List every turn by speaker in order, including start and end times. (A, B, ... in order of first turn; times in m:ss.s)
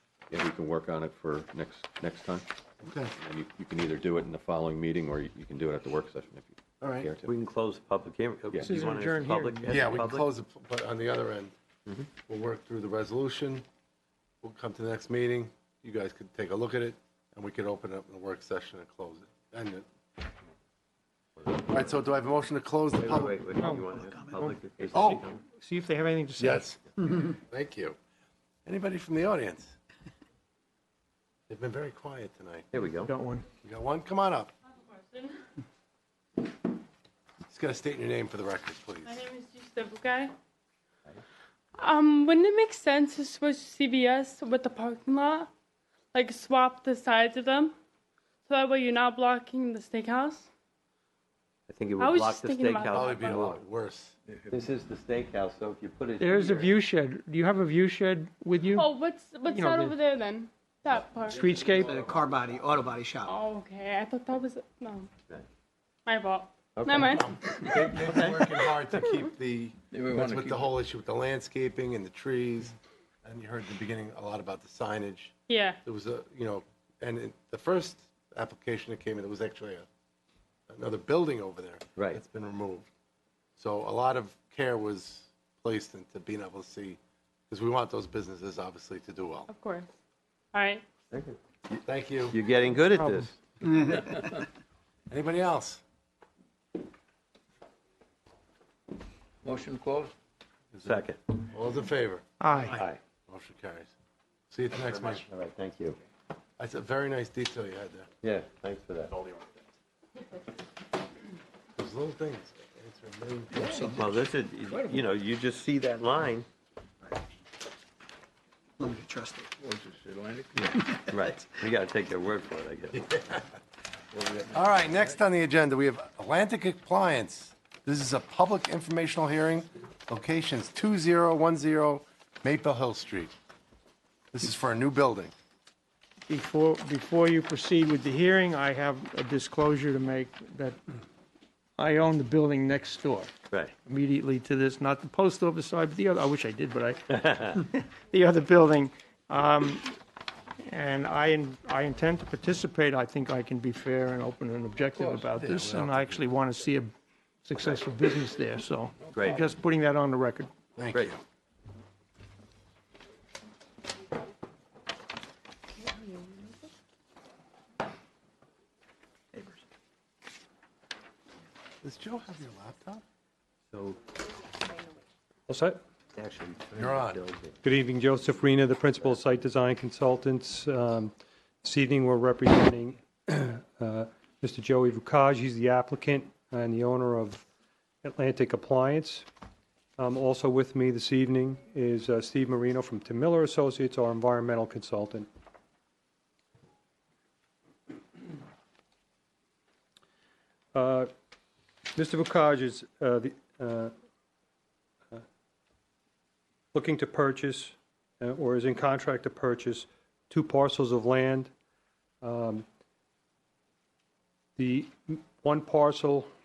0:00.3-0:02.5 A
0:02.8-0:03.1 B
0:03.2-0:07.3 A
0:06.8-0:07.1 B
0:07.2-0:10.3 C
0:08.6-0:09.9 D
0:09.7-0:11.5 B
0:12.2-0:13.6 B
0:14.4-0:19.9 B
0:21.4-0:21.9 C
0:21.6-0:23.4 B
0:23.0-0:25.4 C
0:23.6-0:24.0 D
0:24.9-0:25.2 B
0:25.0-0:26.7 D
0:26.4-0:28.0 B
0:28.7-0:29.8 B
0:31.5-0:32.7 B
0:32.7-0:33.1 C
0:33.0-0:33.4 D
0:33.6-0:34.5 B
0:34.9-0:35.4 E
0:37.5-0:39.2 B
0:39.0-0:40.3 E
0:41.8-0:45.5 E
0:46.1-0:47.7 E
0:48.5-0:50.5 E
0:51.7-0:53.6 C
0:52.0-0:53.4 E
0:52.9-0:54.2 B
0:54.5-0:56.8 C
0:56.2-0:58.9 D
0:58.8-1:01.6 E
0:59.5-1:00.0 D
1:01.3-1:02.1 D
1:01.7-1:02.1 F
1:02.0-1:03.3 G
1:03.2-1:05.1 E
1:06.1-1:07.8 E
1:06.8-1:07.2 C
1:07.1-1:19.9 B
1:08.0-1:08.5 C
1:09.9-1:10.7 F
1:15.5-1:15.8 E
1:20.7-1:22.9 B
1:23.6-1:29.5 B
1:29.5-1:29.9 E
1:30.5-1:30.8 E
1:31.1-1:33.4 C
1:31.8-1:32.4 B
1:33.8-1:34.4 F
1:35.1-1:35.8 B
1:39.4-1:40.1 F
1:40.7-1:42.3 B
1:40.8-1:41.2 C
1:42.4-1:42.8 D
1:42.7-1:43.0 C
1:43.3-1:43.9 B
1:44.5-1:45.2 B
1:44.7-1:46.0 C
1:46.6-1:48.1 B
1:48.2-1:49.2 C
1:51.8-1:54.1 B
1:53.8-1:56.5 C
1:58.8-1:59.5 G
1:59.6-2:01.0 F
2:01.1-2:03.3 C
2:04.1-2:05.1 F
2:04.5-2:13.3 B
2:14.3-2:15.3 B
2:16.3-2:20.8 D
2:21.8-2:23.3 D
2:23.9-2:30.0 D
2:30.6-2:36.9 D
2:35.0-2:35.3 F
2:35.3-2:36.3 B
2:37.4-2:40.5 D
2:39.1-2:39.4 C
2:40.8-2:41.2 B
2:45.9-2:46.2 E
2:51.8-2:53.0 B
2:53.7-2:54.0 C
2:55.5-2:55.8 H
2:56.2-2:57.6 C
2:56.8-2:57.2 B
2:57.6-3:07.5 H
3:08.0-3:09.3 H
3:10.0-3:15.3 H
3:20.7-3:21.1 H
3:22.0-3:23.9 H
3:26.7-3:31.5 H
3:32.2-3:32.6 H
3:34.6-3:36.3 H